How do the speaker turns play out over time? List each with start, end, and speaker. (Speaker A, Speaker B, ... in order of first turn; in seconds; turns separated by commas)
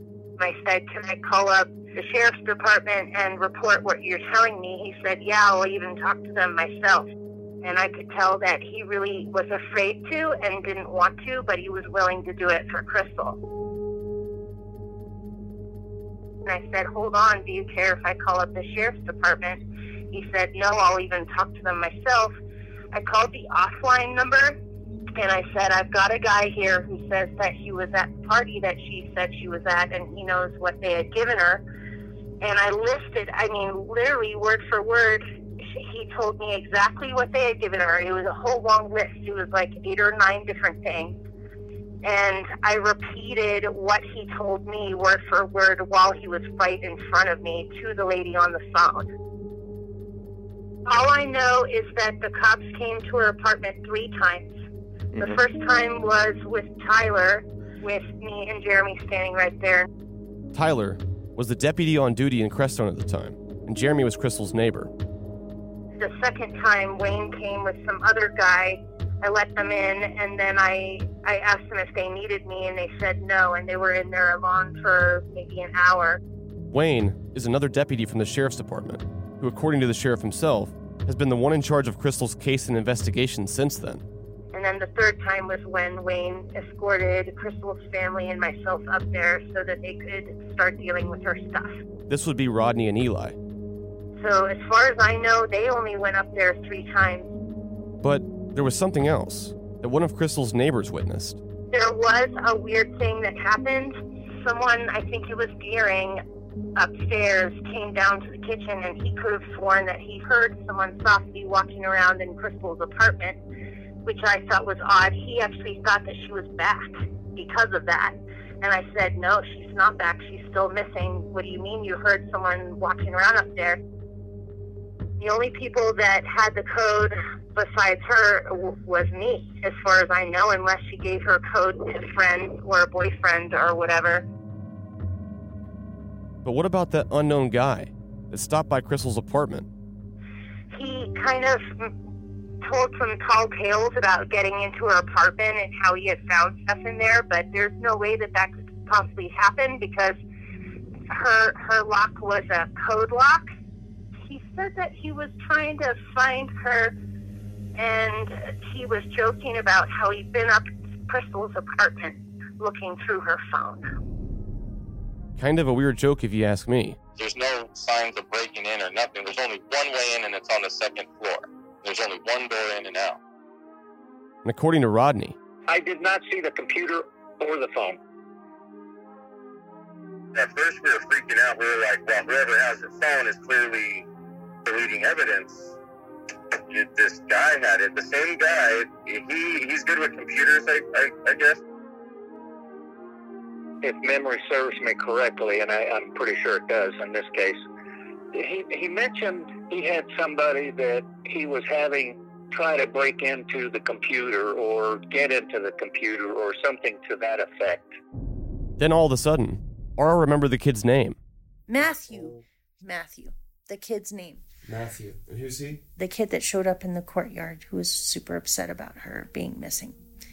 Speaker A: 0.4-7.1, Speaker A: 7.6-13.4, Speaker A: 16.5-22.3, Speaker A: 22.9-24.6, Speaker A: 25.2-31.6, Speaker A: 32.4-41.2, Speaker A: 42.0-49.1, Speaker A: 50.9-54.5, Speaker A: 55.2-59.9, Speaker B: 60.5-64.9, Speaker A: 66.0-76.2, Speaker B: 76.7-84.0, Speaker A: 84.5-91.8, Speaker B: 92.1-93.4, Speaker A: 94.2-97.3, Speaker B: 98.0-101.4, Speaker A: 101.7-106.2, Speaker A: 106.8-113.4, Speaker A: 114.0-123.8, Speaker A: 125.2-134.2, Speaker B: 136.4-139.7, Speaker A: 140.7-141.9, Speaker A: 142.6-150.2, Speaker A: 151.1-153.5, Speaker A: 154.3-156.9, Speaker A: 157.8-163.8, Speaker B: 165.4-167.0, Speaker C: 167.2-173.2, Speaker B: 174.4-175.4, Speaker D: 175.7-178.0, Speaker C: 180.3-184.1, Speaker C: 184.6-185.8, Speaker C: 186.7-191.6, Speaker D: 193.8-197.6, Speaker D: 198.3-208.0, Speaker B: 208.8-211.2, Speaker E: 211.7-214.4, Speaker E: 216.0-220.0